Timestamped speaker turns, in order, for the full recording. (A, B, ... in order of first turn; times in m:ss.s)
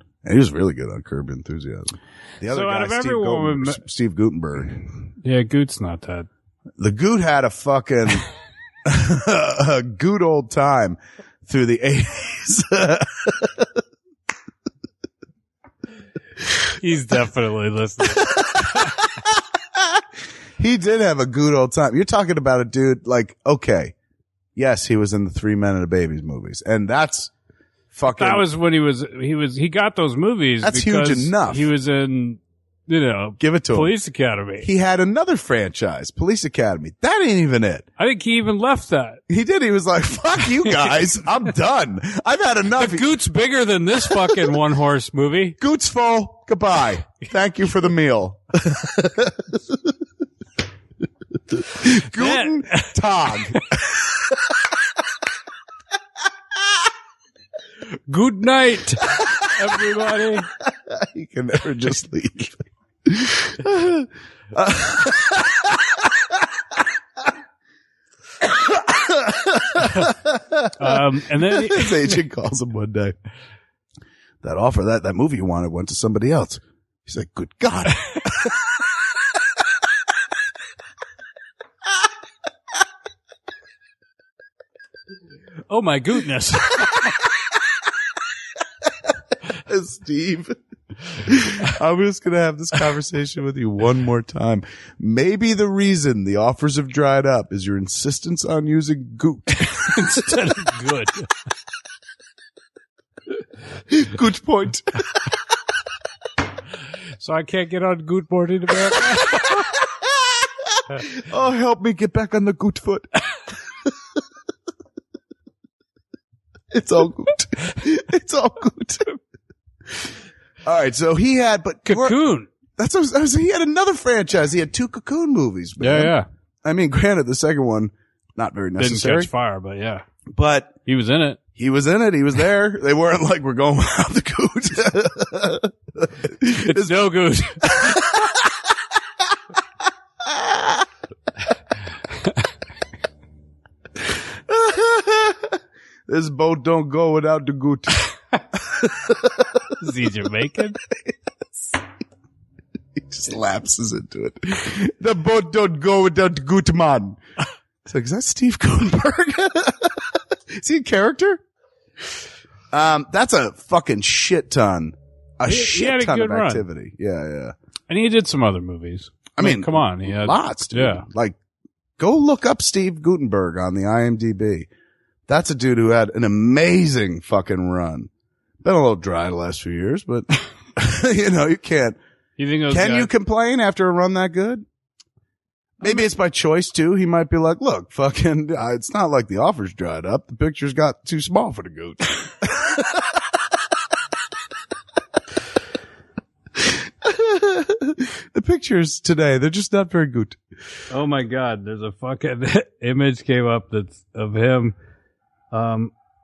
0:00.2-0:04.8 A
0:02.5-0:03.8 B
0:05.2-0:06.3 B
0:06.8-0:08.3 A
0:08.8-0:13.6 A
0:16.8-0:18.9 B
0:18.1-0:19.4 A
0:20.6-0:24.0 A
0:24.6-0:27.3 A
0:27.9-0:28.4 A
0:28.2-0:34.7 B
0:30.6-0:31.7 A
0:33.4-0:33.9 A
0:34.6-0:37.8 A
0:38.0-0:39.2 B
0:39.3-0:43.1 A
0:40.6-0:41.1 B
0:42.8-0:45.6 B
0:44.2-0:44.4 A
0:45.6-0:49.8 A
0:51.6-0:54.1 A
0:51.9-0:53.6 B
0:58.1-1:00.5 B
0:59.1-1:06.3 A
1:08.4-1:10.7 A
1:10.8-1:12.2 B
1:11.4-1:13.2 A
1:14.4-1:18.6 A
1:25.7-1:27.1 B
1:29.5-1:39.9 A
1:39.8-1:41.3 B
1:43.9-1:45.1 A
1:47.2-1:49.7 B
1:49.4-1:50.1 A
1:50.8-1:53.2 A
1:56.7-1:59.2 A
2:00.6-2:02.2 A
2:01.9-2:02.5 B
2:02.8-2:06.1 A
2:05.8-2:06.3 B
2:06.6-2:09.3 A
2:08.8-2:10.0 B
2:10.4-2:10.8 A
2:10.9-2:11.4 B
2:11.6-2:17.1 A
2:16.6-2:18.0 B
2:17.6-2:18.4 A
2:24.5-2:25.5 A
2:26.1-2:29.6 A
2:29.8-2:30.8 B
2:33.0-2:37.2 A
2:37.8-2:41.4 A
2:42.7-2:47.6 A
2:45.4-2:46.6 B
2:47.9-2:51.0 B
2:49.4-2:51.4 A
2:52.0-2:54.7 A
2:55.3-2:58.1 A
2:58.6-3:02.0 A
3:02.4-3:03.1 B
3:02.7-3:04.6 A
3:05.8-3:13.1 A
3:17.0-3:20.4 A
3:20.9-3:24.8 B
3:25.5-3:25.9 B